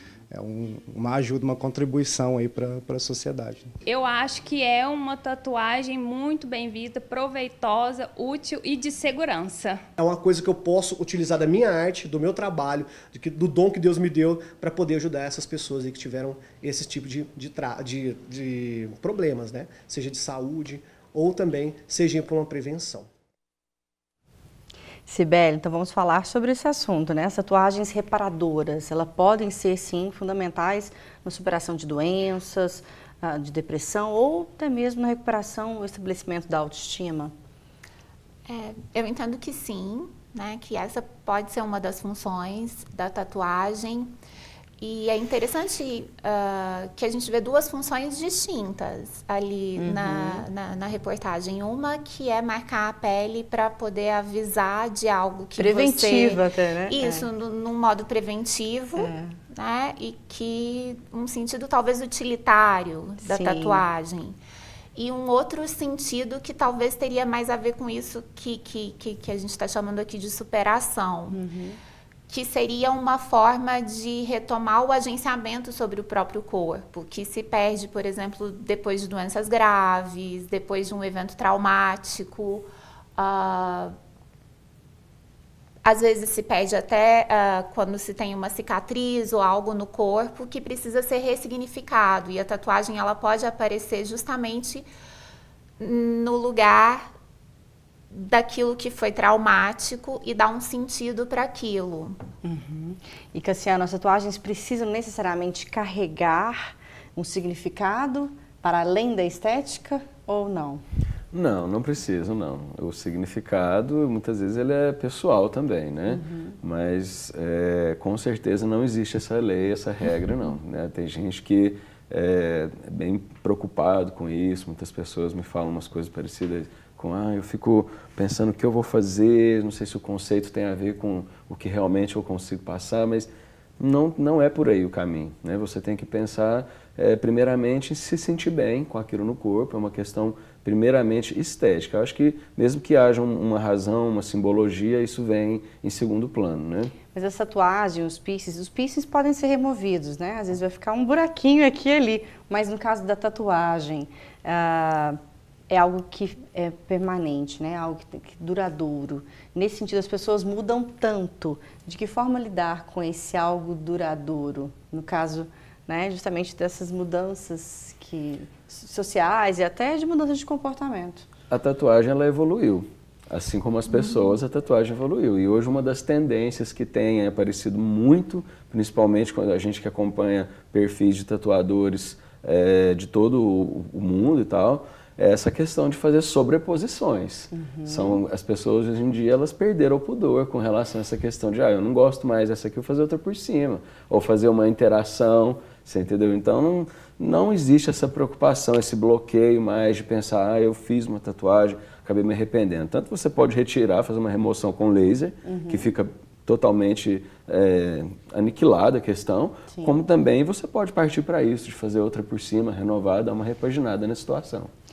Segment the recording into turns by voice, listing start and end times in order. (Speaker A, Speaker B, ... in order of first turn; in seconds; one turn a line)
Speaker A: 0.3-3.7
Speaker B: 3.9-9.8
Speaker C: 10.0-23.1
Speaker D: 25.1-37.3
Speaker E: 38.5-44.1
Speaker E: 44.8-64.4
Speaker D: 49.8-50.5
Speaker D: 55.6-57.3
Speaker D: 59.0-59.4
Speaker D: 63.2-63.8
Speaker E: 65.0-71.4
Speaker D: 71.3-71.8
Speaker E: 72.3-84.0
Speaker E: 85.8-94.9
Speaker E: 95.8-97.1
Speaker E: 98.1-102.2
Speaker D: 102.4-110.8
Speaker F: 111.3-146.9
Speaker D: 116.1-116.6
Speaker D: 147.1-171.3
Speaker F: 171.5-214.7
Speaker D: 187.5-188.2
Speaker D: 205.5-205.9